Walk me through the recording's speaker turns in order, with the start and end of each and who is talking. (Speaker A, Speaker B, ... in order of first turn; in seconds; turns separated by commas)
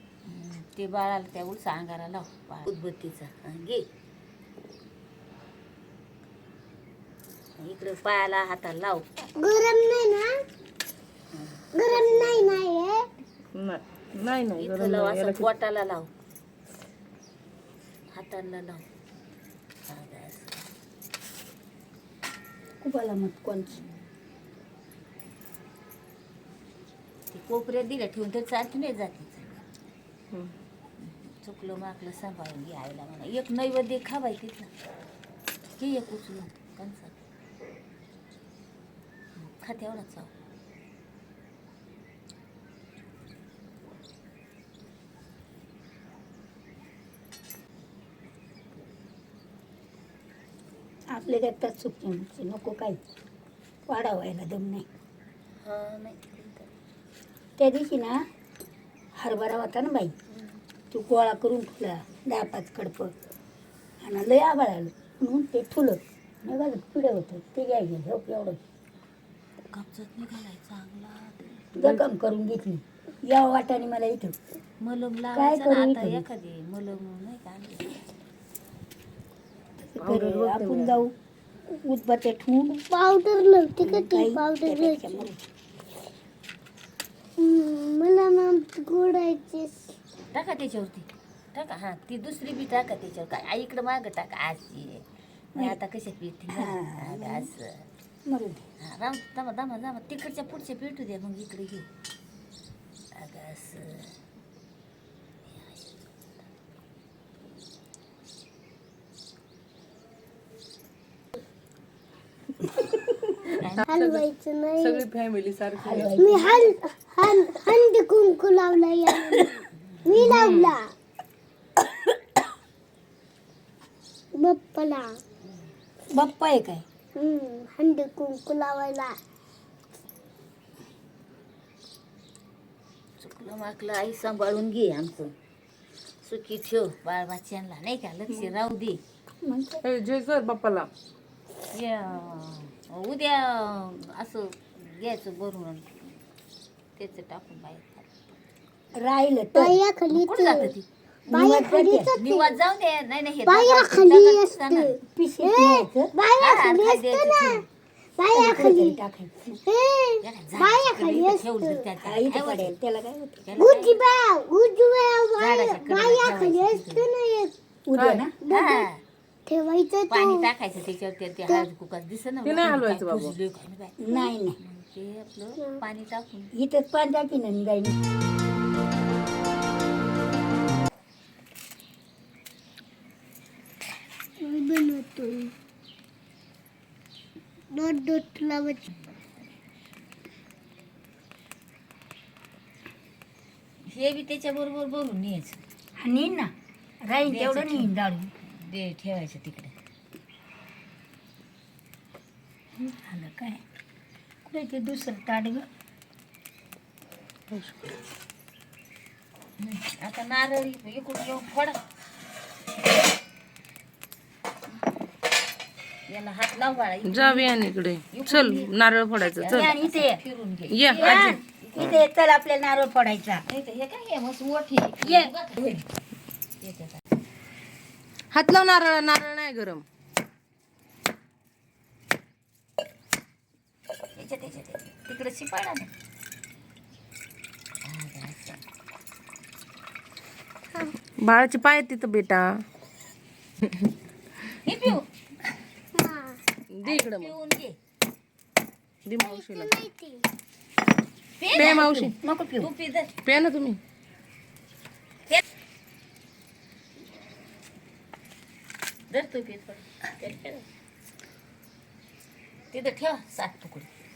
Speaker A: 0.2-3.9, Speaker A: 7.6-9.0, Speaker B: 9.4-10.3, Speaker A: 11.3-12.6, Speaker B: 11.8-13.1, Speaker C: 13.5-15.5, Speaker A: 14.6-16.1, Speaker A: 18.1-18.8, Speaker A: 19.9-20.6, Speaker D: 22.8-23.8, Speaker A: 27.3-29.5, Speaker A: 31.0-34.7, Speaker A: 35.8-37.1, Speaker A: 39.4-40.3, Speaker D: 51.1-53.0, Speaker D: 53.9-54.9, Speaker A: 55.6-56.7, Speaker D: 57.6-58.2, Speaker D: 59.1-60.1, Speaker D: 60.9-63.1, Speaker D: 64.0-68.6, Speaker A: 69.7-71.6, Speaker D: 71.7-74.4, Speaker A: 74.8-77.9, Speaker D: 75.3-76.2, Speaker D: 79.8-81.1, Speaker C: 80.0-81.0, Speaker D: 81.7-82.9, Speaker B: 82.9-85.3, Speaker D: 83.8-85.4, Speaker B: 87.4-89.9, Speaker A: 90.3-97.8, Speaker D: 96.5-97.5, Speaker D: 98.3-98.6, Speaker A: 98.8-101.9, Speaker A: 103.1-104.1, Speaker A: 105.5-105.8, Speaker C: 113.5-114.2, Speaker A: 113.6-113.8, Speaker B: 113.9-115.0, Speaker C: 114.8-116.1, Speaker D: 115.8-116.7, Speaker B: 116.2-120.9, Speaker C: 120.1-120.7, Speaker B: 124.3-125.2, Speaker D: 126.1-126.8, Speaker B: 127.2-129.2, Speaker A: 133.2-135.3, Speaker A: 136.2-139.0, Speaker D: 139.4-139.8, Speaker C: 139.8-140.9, Speaker A: 141.7-146.1, Speaker A: 147.0-148.3, Speaker D: 148.9-149.8, Speaker B: 149.5-150.7, Speaker A: 150.1-150.8, Speaker D: 151.3-152.1, Speaker B: 151.3-152.5, Speaker A: 152.2-154.9, Speaker B: 153.5-157.6, Speaker D: 155.1-156.1, Speaker A: 156.4-157.6, Speaker B: 158.2-159.0, Speaker D: 158.3-159.6, Speaker B: 159.7-161.8, Speaker A: 160.2-162.7, Speaker D: 162.0-163.6, Speaker A: 163.4-164.0, Speaker B: 163.6-167.5, Speaker A: 165.4-167.1, Speaker D: 167.8-168.3, Speaker C: 167.9-168.2, Speaker B: 168.4-168.9, Speaker A: 168.5-169.0, Speaker B: 169.4-170.4, Speaker A: 170.1-176.5, Speaker C: 172.4-173.3, Speaker D: 174.0-174.6, Speaker D: 176.5-177.9, Speaker B: 184.4-185.5, Speaker B: 187.7-188.8, Speaker A: 193.9-195.6, Speaker D: 196.0-196.5, Speaker D: 197.1-198.3, Speaker A: 197.3-197.9, Speaker A: 198.5-199.7, Speaker D: 203.0-203.6, Speaker D: 204.4-205.7, Speaker C: 207.5-207.9, Speaker A: 209.6-211.8, Speaker A: 216.1-217.5, Speaker C: 217.1-219.7, Speaker A: 218.1-222.0, Speaker D: 219.5-220.2, Speaker C: 220.7-221.4, Speaker D: 220.9-223.4, Speaker A: 223.5-225.8, Speaker D: 225.0-225.3, Speaker A: 226.6-227.0, Speaker C: 228.3-229.8, Speaker A: 234.2-235.9, Speaker A: 237.8-238.6, Speaker C: 241.2-242.6, Speaker C: 243.6-243.9, Speaker A: 244.6-245.1, Speaker B: 245.9-246.4, Speaker C: 246.7-247.3, Speaker A: 246.8-247.8, Speaker C: 249.1-249.8, Speaker B: 249.2-250.2, Speaker A: 251.4-252.0, Speaker C: 251.5-252.1, Speaker D: 251.6-252.7, Speaker A: 252.6-253.1, Speaker C: 253.2-253.8, Speaker A: 259.1-260.6, Speaker A: 262.7-263.9